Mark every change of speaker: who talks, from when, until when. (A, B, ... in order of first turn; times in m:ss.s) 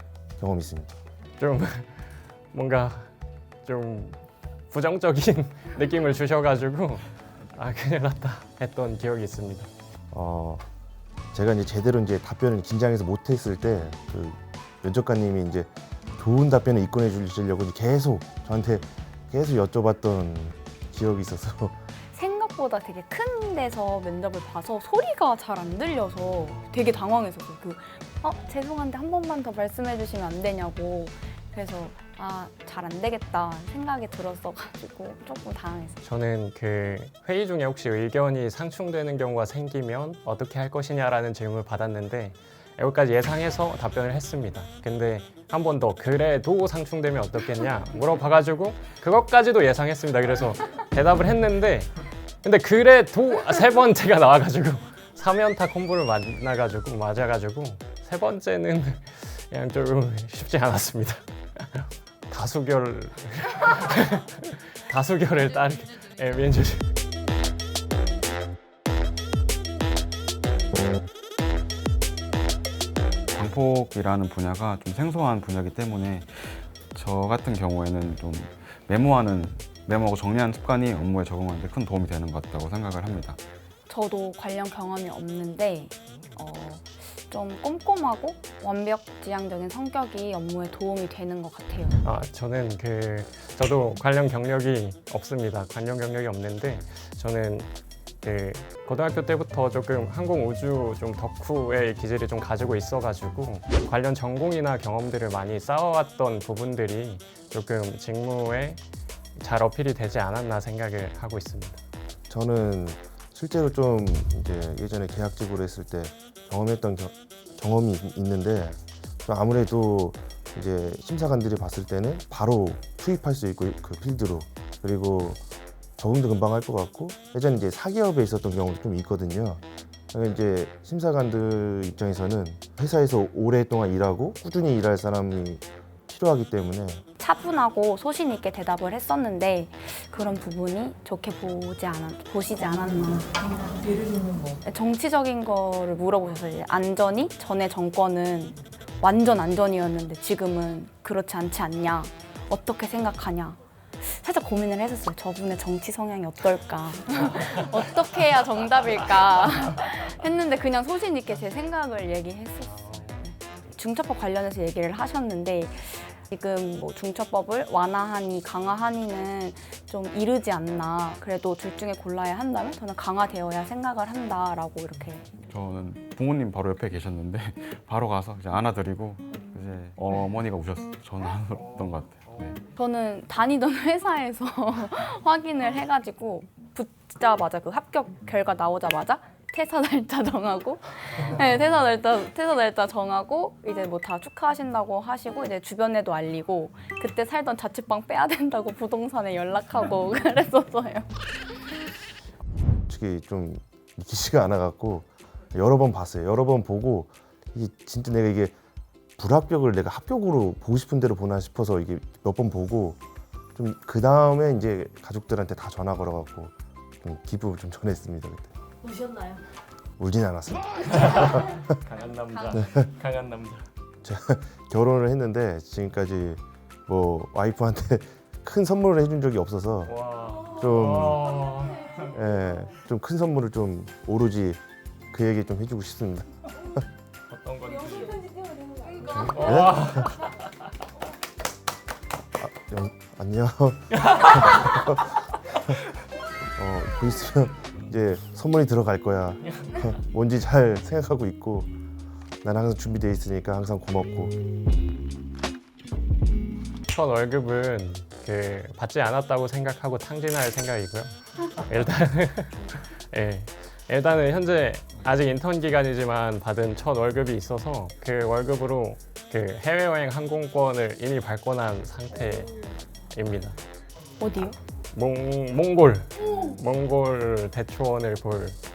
0:00.4-0:01.0 A
0:01.4-0:03.1 B
0:03.6-0:09.7 B
0:10.1-0:10.6 A
0:11.3-0:21.8 A
0:22.1-0:36.0 C
0:36.0-1:07.0 B
1:13.3-1:23.4 D
1:23.9-1:32.0 C
1:32.0-1:37.7 B
1:38.2-1:48.8 B
1:49.4-1:51.8 B
1:52.3-2:05.4 A
2:06.0-2:17.0 A
2:17.2-2:23.7 C
2:23.6-2:24.6 E
2:24.6-2:55.3 C
2:42.7-2:43.2 B
2:55.5-3:02.6 D
3:02.8-3:21.7 C
3:22.9-3:28.5 A
3:29.2-3:33.0 A
3:33.5-3:38.5 A
3:38.8-3:39.4 E
3:40.0-3:41.6 A
3:40.9-3:43.7 B
3:42.5-3:42.9 A
3:44.0-3:50.0 A
3:49.8-3:52.1 B
3:50.5-3:51.5 A
3:52.0-3:56.7 A
3:57.3-3:58.2 B
3:57.8-3:59.4 E
3:59.0-4:00.0 A
3:59.2-4:00.5 B
4:02.4-4:05.2 A
4:04.0-4:04.7 B
4:06.6-4:11.7 A
4:12.4-4:14.3 A
4:16.9-4:32.5 B
4:33.1-4:33.6 B
4:34.2-4:34.6 C
4:34.9-4:38.6 B